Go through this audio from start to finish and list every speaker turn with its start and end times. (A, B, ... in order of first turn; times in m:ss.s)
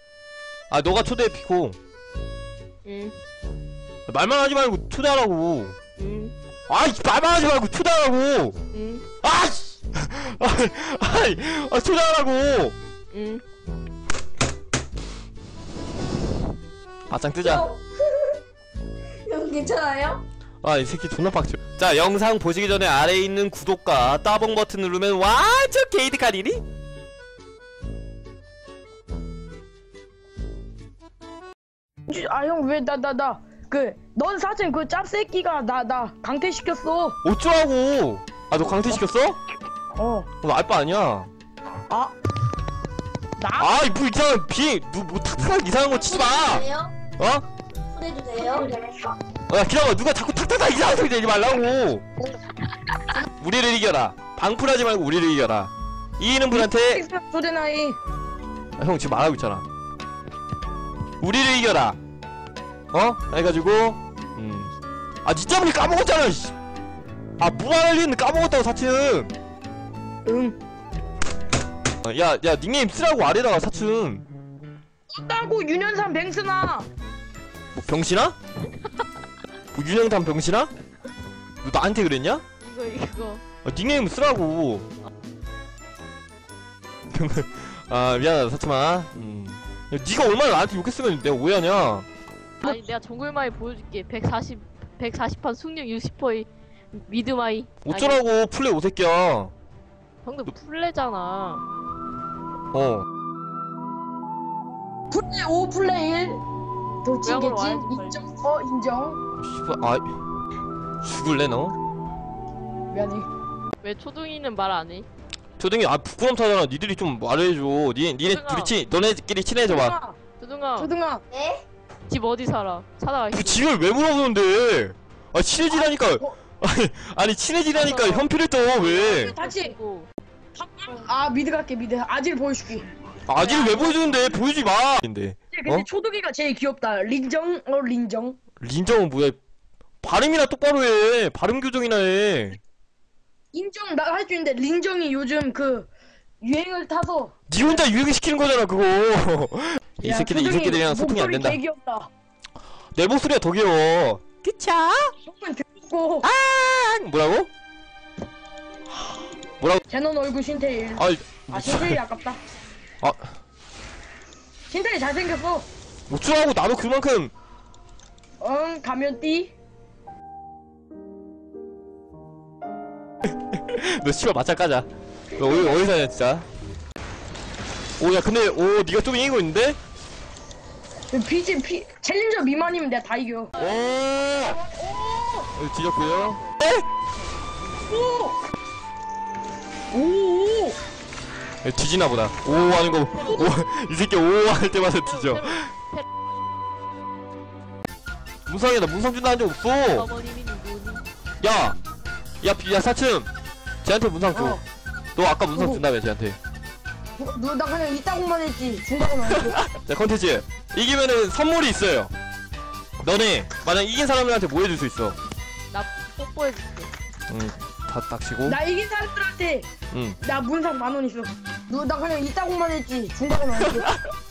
0:00.7-0:01.8 A
0:02.8-0:03.1 B
0:04.1-0:05.8 A
0:06.0-0:06.3 B
0:06.7-0:08.6 A
0:08.7-0:09.0 B
0:09.2-0:12.7 A
0:13.1-0:13.4 B
0:17.1-0:17.7 A
0:17.4-0:18.4 C
0:19.2-0:20.2 C
0:20.6-0:26.6 A
0:32.1-0:37.2 D
0:37.2-0:39.4 A
0:39.9-0:40.3 D
0:40.4-0:41.3 A
0:41.9-0:42.1 D
0:43.4-0:43.7 D
0:43.6-0:46.7 A
0:45.9-0:46.9 C
0:47.2-0:47.4 A
0:47.9-0:49.1 C
0:49.5-0:52.0 A
0:53.2-0:57.0 A
0:56.5-0:58.0 D
0:58.8-0:59.6 A
1:01.2-1:02.0 A
1:02.9-1:04.7 A
1:05.2-1:06.5 A
1:07.4-1:09.3 A
1:10.2-1:10.6 D
1:12.0-1:14.2 A
1:15.1-1:16.9 D
1:17.7-1:18.4 A
1:19.7-1:20.7 A
1:21.6-1:22.4 A
1:22.6-1:23.4 B
1:23.6-1:24.8 A
1:27.1-1:32.1 A
1:32.6-1:38.2 B
1:37.8-1:39.5 A
1:40.2-1:41.6 B
1:42.7-1:43.0 A
1:45.1-1:46.4 D
1:47.0-1:49.2 D
1:47.2-1:48.2 B
1:49.4-1:50.2 A
1:51.0-1:51.8 A
1:52.9-1:53.3 D
1:53.8-1:55.1 B
1:55.6-2:00.0 A
1:58.2-1:58.7 B
1:59.6-2:00.2 D
2:00.4-2:00.9 B
2:00.8-2:01.2 D
2:01.3-2:01.6 C
2:02.1-2:03.7 B
2:03.3-2:09.3 A
2:05.7-2:06.4 D
2:07.7-2:10.1 B
2:09.2-2:09.8 D
2:10.5-2:12.9 D
2:13.3-2:15.9 A
2:13.4-2:13.9 B
2:13.6-2:14.0 D
2:15.5-2:18.4 D
2:18.6-2:19.4 A
2:20.0-2:22.6 A
2:23.5-2:25.9 D
2:26.4-2:27.4 D
2:27.5-2:31.6 A
2:30.0-2:32.1 D
2:32.9-2:35.1 A
2:35.2-2:36.3 D
2:36.2-2:37.5 A
2:39.9-2:42.4 D
2:41.0-2:42.0 A
2:43.0-2:43.4 A
2:44.7-2:45.7 D
2:46.1-2:47.3 A
2:48.4-2:49.5 D
2:53.5-2:56.5 A
2:55.3-2:55.8 D
2:58.0-2:59.8 A
3:01.1-3:03.5 D
3:03.6-3:04.6 A
3:03.6-3:03.8 B
3:04.5-3:05.5 D
3:05.5-3:06.8 A
3:07.8-3:08.4 D
3:09.9-3:10.8 D
3:11.6-3:15.7 A
3:12.8-3:13.5 B
3:13.2-3:13.5 D
3:15.0-3:16.0 B
3:18.4-3:20.1 A
3:19.8-3:21.0 B
3:21.4-3:21.8 A
3:22.4-3:23.3 A
3:23.8-3:24.6 A
3:24.3-3:24.6 D
3:25.1-3:26.4 A
3:25.5-3:25.8 D
3:27.2-3:29.6 D
3:29.3-3:32.1 A
3:33.0-3:35.2 A
3:35.7-3:36.9 B
3:37.3-3:38.6 A
3:38.4-3:39.7 D
3:39.9-3:40.2 A
3:40.2-3:43.9 D
3:43.7-3:44.0 A